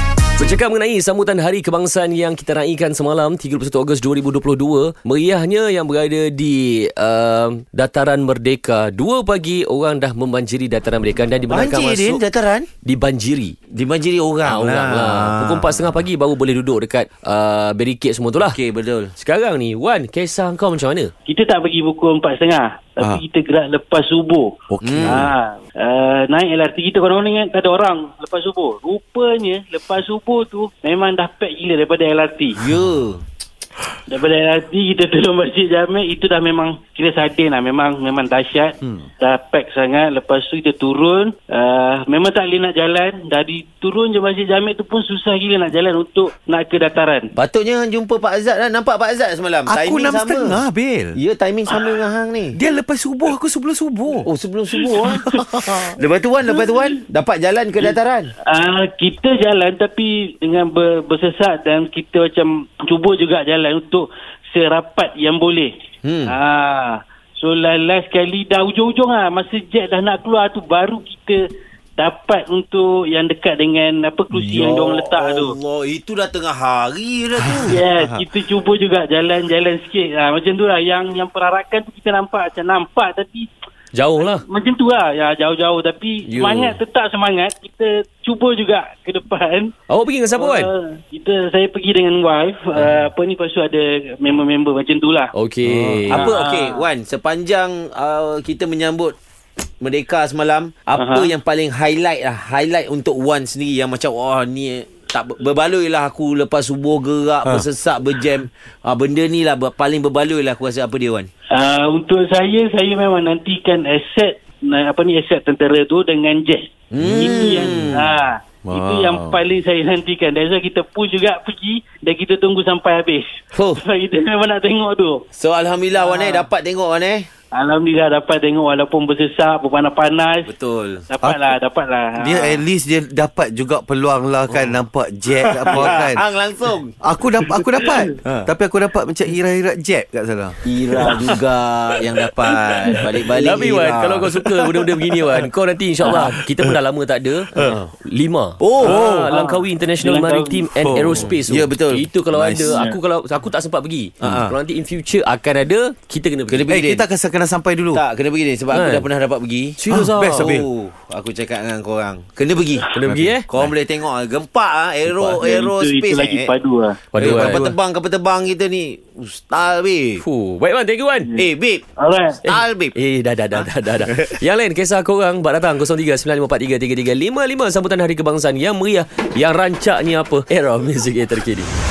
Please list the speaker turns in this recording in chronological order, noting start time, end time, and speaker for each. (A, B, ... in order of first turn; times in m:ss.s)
0:00.4-0:12.2 A
0:11.5-0:12.7 B
0:12.8-0:13.6 A
0:13.7-0:15.8 B
0:14.4-0:18.6 A
0:18.4-0:19.1 B
0:19.2-0:21.1 A
0:21.2-0:32.6 C
0:24.7-0:25.3 D
0:24.8-0:25.3 B
0:32.6-0:33.2 B
0:34.1-0:47.3 C
0:47.4-0:50.6 B
0:49.6-0:51.2 D
0:51.2-0:52.6 B
0:52.5-0:54.3 D
0:54.2-0:58.3 B
0:55.0-0:56.0 D
0:58.4-1:05.7 C
1:06.0-1:06.3 B
1:06.2-1:11.4 C
1:12.0-1:15.5 C
1:14.4-1:17.8 B
1:17.4-1:18.2 D
1:17.6-1:23.5 C
1:23.9-1:24.4 A
1:24.2-1:29.7 C
1:26.3-1:26.8 A
1:29.9-1:30.7 A
1:30.3-1:35.3 C
1:35.3-1:36.2 A
1:35.6-1:36.1 D
1:36.1-1:39.2 B
1:36.1-1:36.8 C
1:39.8-1:51.3 B
1:41.0-1:41.3 C
1:51.5-2:05.2 C
1:56.9-1:58.0 B
1:57.0-1:58.1 D
1:58.6-1:59.4 D
2:03.5-2:03.8 B
2:05.3-2:07.3 B
2:06.0-2:06.4 C
2:07.5-2:10.5 C
2:10.5-2:11.1 B
2:11.1-2:12.6 C
2:11.2-2:11.5 D
2:12.2-2:16.2 D
2:14.5-2:14.8 B
2:15.4-2:16.9 B
2:17.0-2:21.4 D
2:18.2-2:18.5 B
2:20.6-2:24.3 B
2:22.2-2:22.6 D
2:23.4-2:36.7 A
2:26.1-2:26.7 D
2:27.6-2:27.9 B
2:28.6-2:29.0 B
2:28.8-2:29.3 D
2:29.3-2:30.6 C
2:30.8-2:31.4 D
2:31.2-2:32.1 B
2:32.3-2:32.8 D
2:32.6-2:33.0 C
2:34.2-2:34.6 D
2:36.5-2:37.0 B
2:36.7-2:38.0 D
2:37.9-2:39.8 B
2:38.7-2:39.1 A
2:39.8-2:40.5 A
2:39.9-2:40.7 D
2:40.4-2:42.9 B
2:42.9-2:43.5 A
2:43.0-2:43.7 D
2:43.5-2:46.5 B
2:45.1-2:45.4 A
2:45.4-2:47.0 C
2:47.1-2:47.6 A
2:47.2-2:50.2 B
2:47.2-2:47.8 D
2:50.2-2:51.3 A
2:51.4-2:51.8 B
2:52.0-2:52.4 C
2:52.4-3:01.7 A
2:52.5-2:52.9 B